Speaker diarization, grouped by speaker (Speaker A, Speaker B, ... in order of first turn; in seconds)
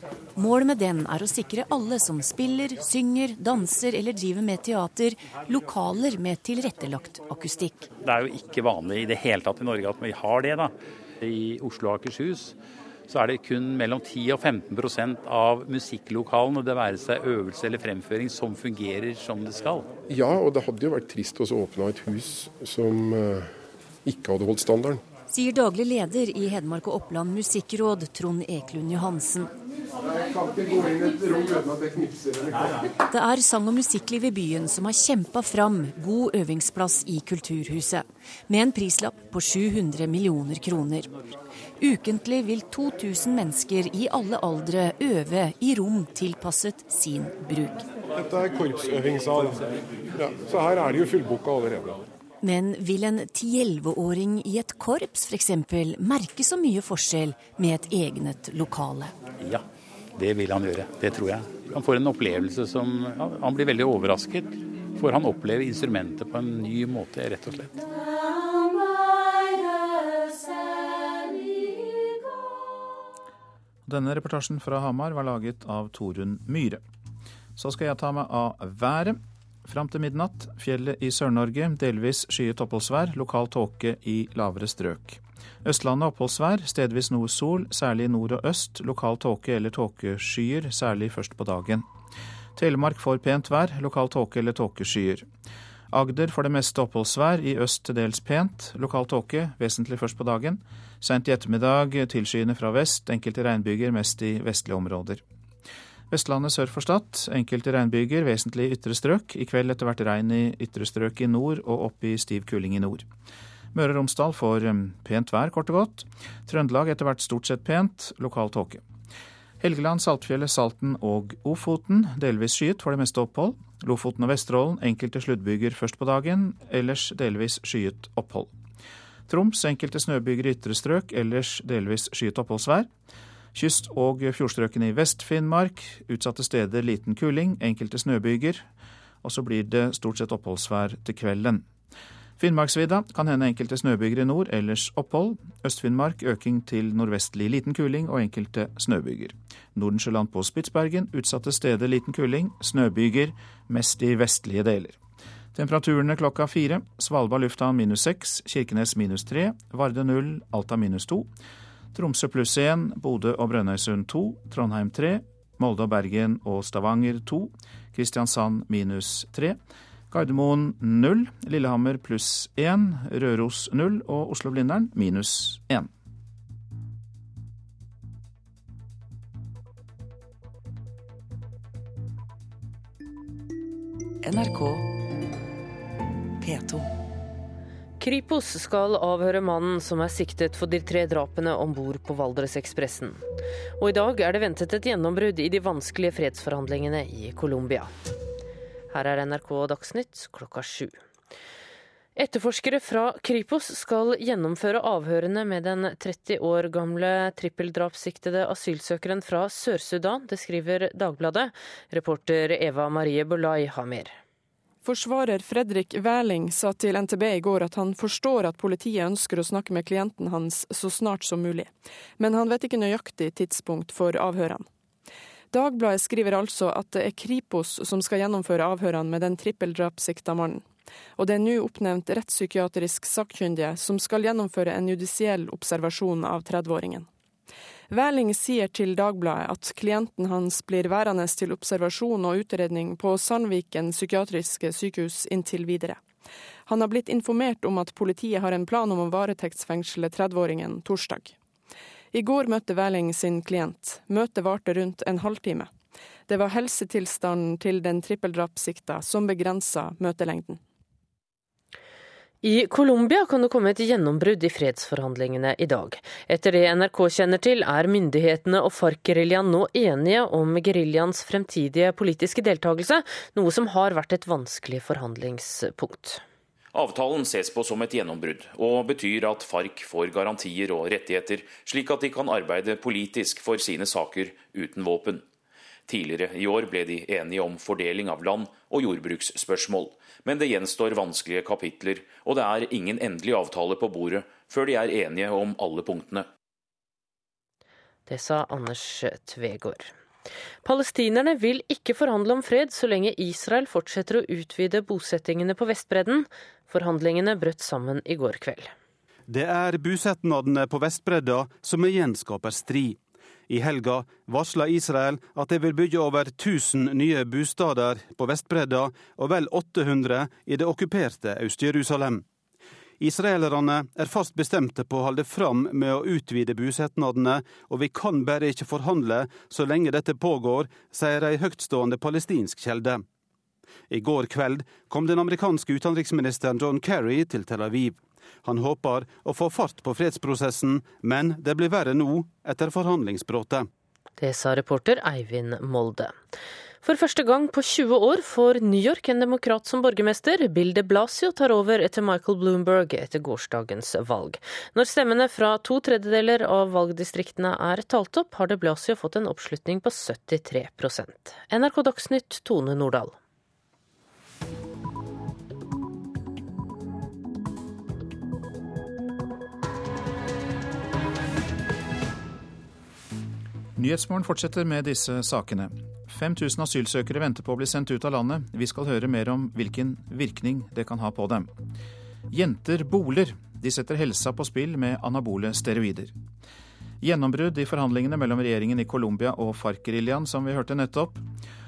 Speaker A: 0.3-7.9, 25.3-29.5, 33.1-41.1, 41.8-47.9, 52.4-59.1, 184.4-184.7, 186.5-186.8
Speaker B: 8.0-12.6, 13.1-19.9, 60.1-67.7
Speaker C: 20.1-23.5, 24.1-25.0, 30.4-32.5, 48.2-52.0
Speaker D: 73.8-76.8, 77.6-91.8, 92.5-95.2, 95.9-105.2, 106.1-113.1, 113.7-118.8, 119.6-128.5, 129.3-132.9, 133.5-138.7, 139.2-141.6, 142.4-155.0, 155.5-161.3, 161.9-169.6, 170.1-175.9, 373.8-381.5, 382.3-386.1, 387.0-391.2
Speaker E: 188.0-193.2, 193.8-197.9, 198.9-201.0, 202.2-214.1, 262.4-276.2, 298.1-299.9, 300.6-308.7, 344.2-346.2, 346.8-363.1
Speaker F: 214.8-224.7, 225.5-237.1, 237.9-246.0, 246.7-251.3, 252.1-255.7, 256.3-260.6
Speaker G: 276.7-285.2, 285.9-296.3
Speaker H: 309.3-322.2, 323.0-333.0, 333.9-343.7